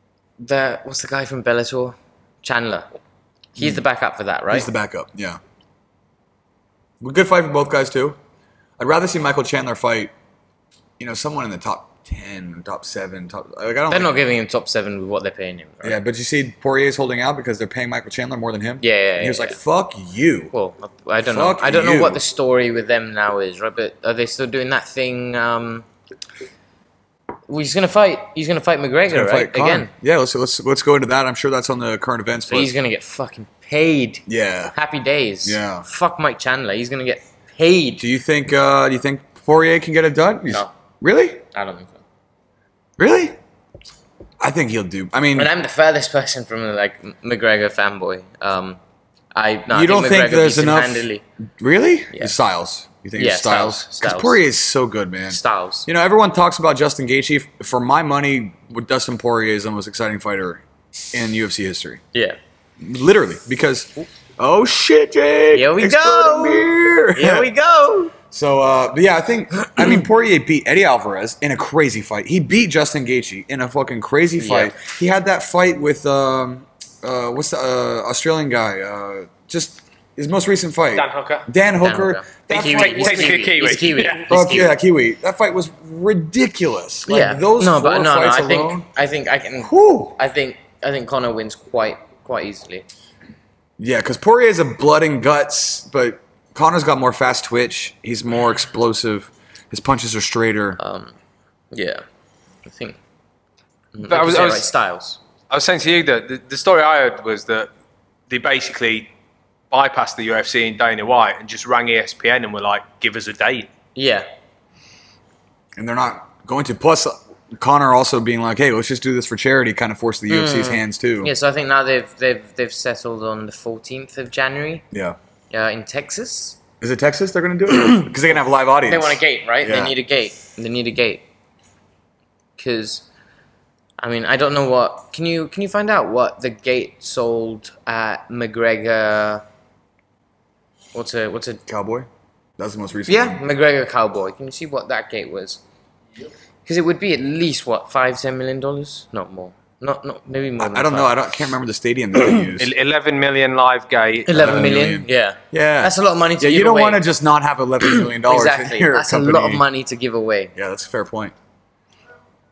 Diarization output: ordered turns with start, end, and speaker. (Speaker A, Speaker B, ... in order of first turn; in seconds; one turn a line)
Speaker A: 0.4-2.9
Speaker A: 3.5-4.7
Speaker B: 3.6-3.8
Speaker B: 4.5-5.4
Speaker B: 7.0-8.2
Speaker B: 8.8-10.1
Speaker B: 11.0-14.2
Speaker A: 13.9-16.0
Speaker B: 15.8-20.5
Speaker A: 18.8-19.6
Speaker A: 20.5-25.8
Speaker B: 21.2-22.2
Speaker A: 27.5-29.9
Speaker B: 29.1-32.7
Speaker A: 32.5-38.0
Speaker B: 34.3-34.7
Speaker B: 35.4-35.9
Speaker B: 38.0-41.4
Speaker A: 41.5-42.0
Speaker B: 43.0-43.4
Speaker B: 44.4-45.5
Speaker A: 45.4-48.8
Speaker A: 49.3-51.2
Speaker B: 49.7-62.0
Speaker A: 53.1-54.4
Speaker A: 55.3-55.9
Speaker B: 62.8-67.5
Speaker A: 65.5-68.1
Speaker B: 68.1-83.5
Speaker A: 74.4-74.7
Speaker C: 80.9-81.5
Speaker A: 81.8-84.7
Speaker C: 82.5-84.3
Speaker B: 84.3-88.8
Speaker A: 87.1-92.8
Speaker B: 89.6-90.2
Speaker B: 93.8-100.8
Speaker A: 100.8-101.1
Speaker A: 101.7-102.0
Speaker A: 102.6-103.0
Speaker A: 103.9-105.2
Speaker C: 104.1-104.7
Speaker C: 105.5-107.7
Speaker C: 108.3-109.1
Speaker C: 109.7-113.7
Speaker A: 114.0-114.3
Speaker B: 115.8-121.3
Speaker A: 120.3-124.8
Speaker B: 124.9-125.2
Speaker A: 125.5-126.6
Speaker B: 126.8-129.9
Speaker A: 128.8-131.2
Speaker A: 132.6-133.0
Speaker A: 134.0-139.4
Speaker A: 140.9-141.6
Speaker B: 141.7-143.4
Speaker A: 143.1-145.6
Speaker A: 146.6-151.1
Speaker B: 150.6-152.7
Speaker C: 152.6-154.7
Speaker A: 154.3-157.0
Speaker B: 154.3-159.6
Speaker A: 157.8-160.5
Speaker B: 160.5-161.3